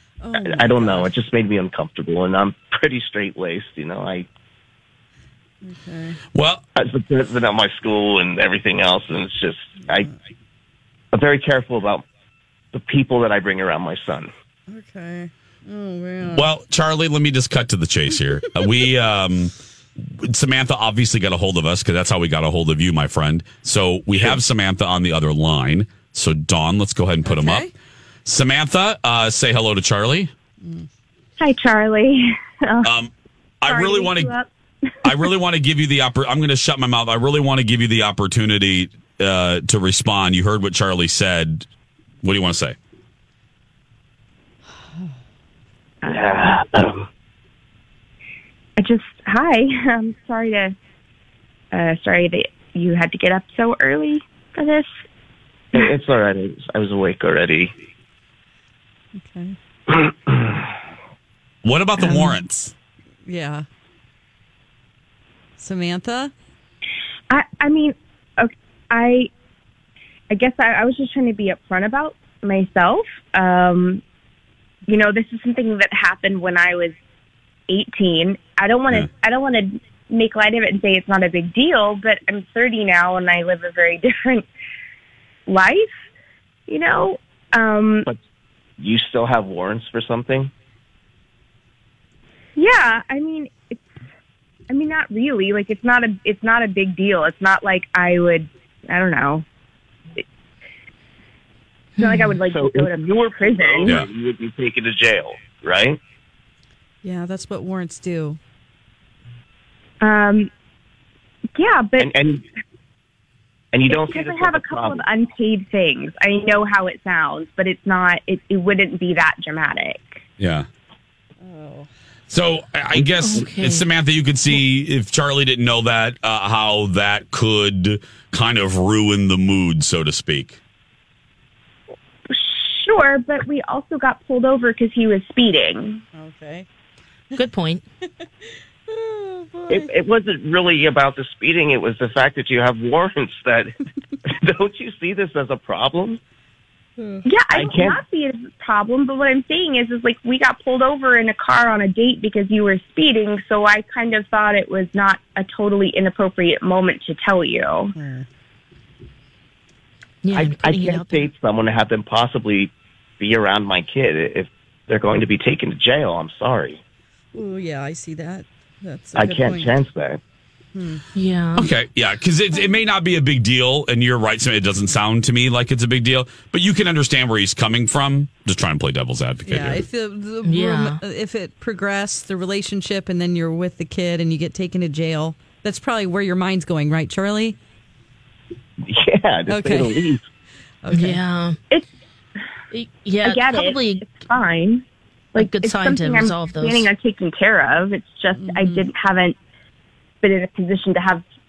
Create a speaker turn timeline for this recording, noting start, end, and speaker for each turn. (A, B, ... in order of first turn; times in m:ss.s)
0:00.2-0:01.1 A
0:00.4-0:04.3 B
0:05.6-0:06.2 A
0:06.3-0:06.6 C
0:06.8-0:10.1 B
0:11.1-0:12.0 B
0:12.7-0:14.3 B
0:14.7-0:16.5 A
0:16.3-0:27.6 C
0:27.2-0:27.7 A
0:28.2-0:30.3 C
0:31.4-0:32.9 D
0:32.8-0:34.3 C
0:33.7-0:34.5 D
0:35.0-0:41.6 C
0:42.2-0:42.8 C
0:46.0-0:47.0 B
0:48.8-0:50.7 D
0:51.7-0:54.9 D
0:55.7-0:57.7 B
0:59.2-0:59.5 A
0:59.9-1:00.6 B
1:01.6-1:02.5 C
1:02.0-1:02.7 A
1:03.2-1:03.6 A
1:05.6-1:06.3 A
1:07.3-1:09.3 D
1:10.3-1:14.0 D
1:14.9-1:17.0 D
1:17.7-1:24.4 D
1:25.5-1:25.9 D
1:26.7-1:28.1 D
1:28.8-1:30.5 B
1:32.6-1:33.8 D
1:34.7-1:39.4 D
1:42.0-1:42.4 E
1:42.0-1:44.0 D
1:42.5-1:46.0 B
1:47.0-1:48.4 A
1:50.0-1:50.5 D
1:51.6-1:52.1 D
1:52.0-1:52.4 B
1:53.7-1:55.0 B
1:53.9-2:00.2 D
2:00.4-2:00.7 C
2:01.4-2:01.9 A
2:02.3-2:10.6 C
2:03.2-2:03.8 E
2:12.3-2:16.0 D
2:16.2-2:16.6 A
2:17.4-2:17.8 E
2:18.9-2:19.9 A
2:19.7-2:23.7 B
2:24.3-2:26.2 B
2:27.0-2:27.2 A
2:27.2-2:37.9 D
2:27.5-2:28.0 B
2:38.0-2:38.2 A
2:40.2-2:41.3 E
2:40.3-2:46.8 B
2:47.3-2:49.7 A
2:49.1-2:50.2 B
2:50.7-2:51.0 A
2:51.1-2:51.7 E
2:51.6-2:59.8 C
2:59.4-3:07.6 A
3:00.4-3:01.0 E
3:08.9-3:10.2 B
3:09.5-3:10.1 A
3:10.8-3:11.2 A
3:10.9-3:11.6 E
3:12.7-3:14.0 E
3:13.2-3:19.3 D
3:15.4-3:16.9 E
3:18.3-3:18.8 A
3:20.2-3:21.2 D